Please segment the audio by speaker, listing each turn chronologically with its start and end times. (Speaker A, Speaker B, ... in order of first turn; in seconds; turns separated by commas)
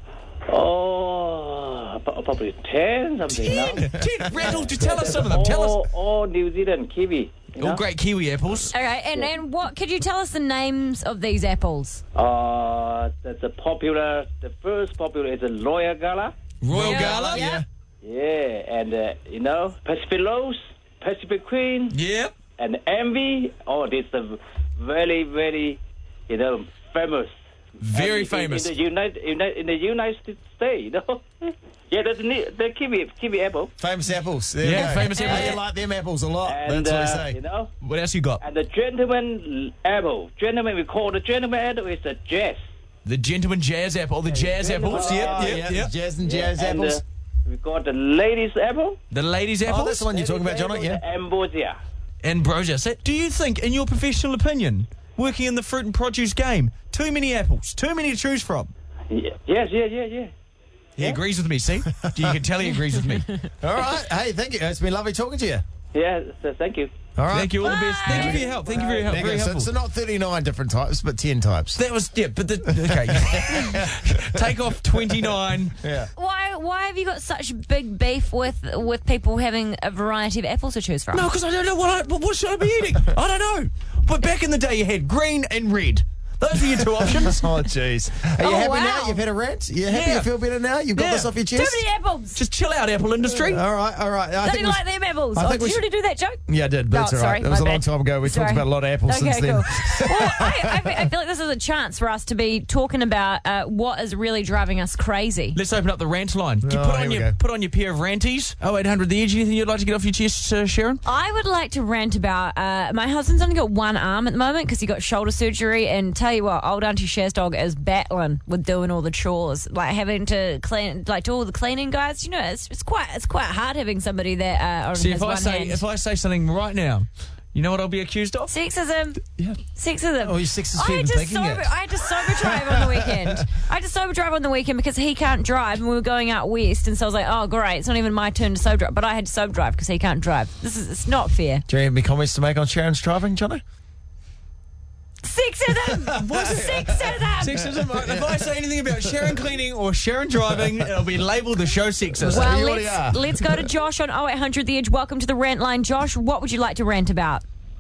Speaker A: 0.5-7.8, Speaker B: 3.3-5.9, Speaker C: 3.5-4.5, Speaker B: 7.6-8.7, Speaker D: 8.7-12.0, Speaker A: 12.2-16.3, Speaker C: 16.6-17.6, Speaker B: 16.6-17.5, Speaker D: 16.8-17.6, Speaker A: 18.0-22.0, Speaker B: 21.9-22.3, Speaker A: 22.6-33.7, Speaker B: 27.8-28.8, Speaker C: 33.8-37.4, Speaker B: 34.6-35.6, Speaker D: 35.2-35.5, Speaker A: 36.5-37.7, Speaker B: 37.8-38.4, Speaker A: 38.4-42.6, Speaker B: 43.0-45.9, Speaker A: 44.3-45.7, Speaker C: 44.9-47.0, Speaker A: 46.2-49.0, Speaker B: 49.1-50.0, Speaker C: 49.6-51.0, Speaker A: 50.0-51.8, Speaker B: 52.2-58.7, Speaker A: 59.1-60.3, Speaker B: 61.0-63.3, Speaker C: 62.0-62.3, Speaker C: 63.6-65.6, Speaker A: 65.9-66.9, Speaker C: 67.2-71.8, Speaker B: 67.3-69.7, Speaker D: 67.6-68.4, Speaker A: 68.2-69.3, Speaker B: 71.8-75.8, Speaker C: 72.7-74.4, Speaker C: 75.8-76.1, Speaker D: 76.2-81.3, Speaker B: 81.1-87.5, Speaker C: 87.2-91.8, Speaker D: 88.4-89.2, Speaker B: 89.9-90.3, Speaker B: 91.0-91.3, Speaker D: 91.5-92.4, Speaker B: 92.3-93.6, Speaker C: 93.4-95.8, Speaker D: 94.4-96.4, Speaker C: 96.5-101.1, Speaker D: 96.9-105.6, Speaker B: 105.5-111.0, Speaker C: 106.6-107.3, Speaker D: 111.0-125.8, Speaker B: 125.0-128.5, Speaker D: 128.5-129.2, Speaker D: 129.8-141.6, Speaker C: 130.2-133.3, Speaker C: 141.7-143.6, Speaker D: 145.2-147.6, Speaker C: 146.1-148.5, Speaker B: 147.4-152.5, Speaker C: 149.0-149.3, Speaker C: 152.2-153.7, Speaker D: 152.3-157.4